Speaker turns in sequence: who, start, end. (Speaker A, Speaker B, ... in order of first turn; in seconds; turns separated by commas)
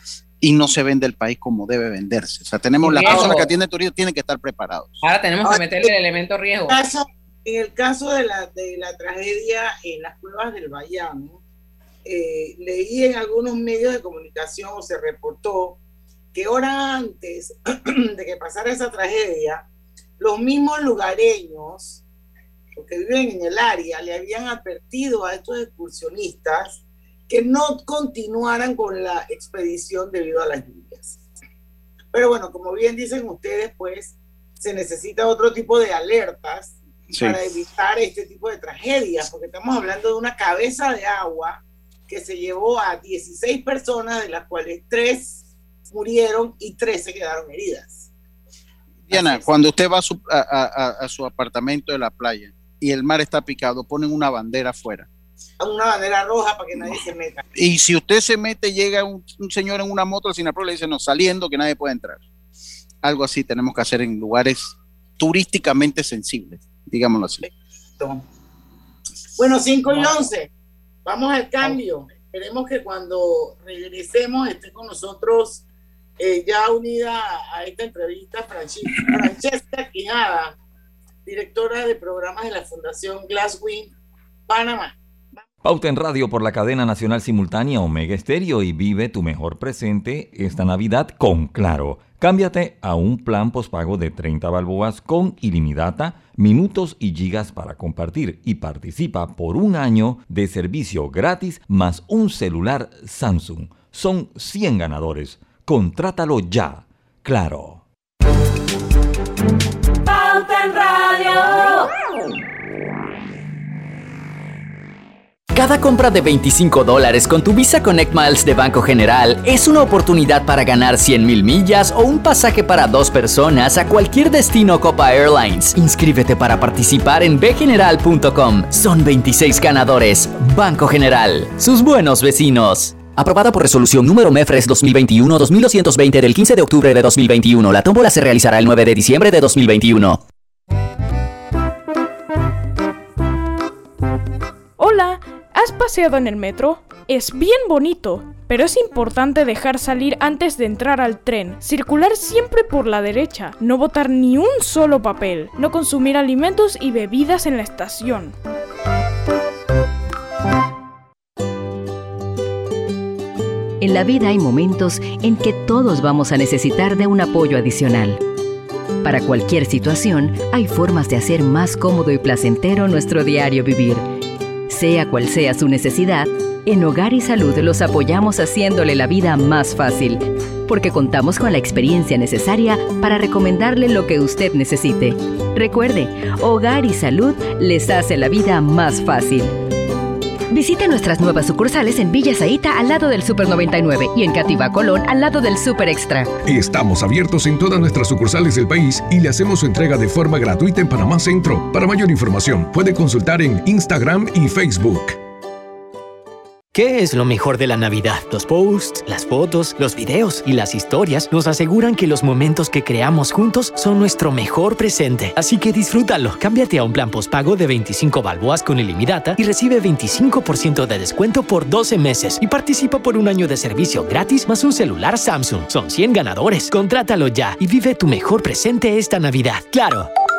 Speaker A: 0.4-5.0, Speaker B: 2.8-3.5, Speaker C: 3.0-3.4, Speaker B: 5.0-6.8, Speaker C: 5.5-5.9, Speaker C: 6.7-11.4, Speaker C: 12.1-15.8, Speaker C: 16.3-19.6, Speaker C: 20.2-22.0, Speaker C: 22.8-31.2, Speaker C: 32.1-48.1, Speaker A: 37.1-37.4, Speaker A: 49.1-55.1, Speaker C: 49.1-49.5, Speaker C: 55.6-57.4, Speaker A: 57.6-62.2, Speaker A: 63.0-67.5, Speaker C: 67.4-68.2, Speaker C: 69.4-70.5, Speaker A: 69.9-70.2, Speaker C: 71.0-75.6, Speaker C: 76.2-80.5, Speaker C: 81.3-83.9, Speaker C: 84.5-85.0, Speaker D: 85.6-107.8, Speaker E: 115.5-140.2, Speaker F: 144.8-158.3, Speaker G: 163.8-168.2, Speaker G: 169.0-174.1, Speaker G: 174.7-189.6, Speaker G: 190.5-196.3, Speaker H: 196.5-205.2, Speaker I: 206.7-230.1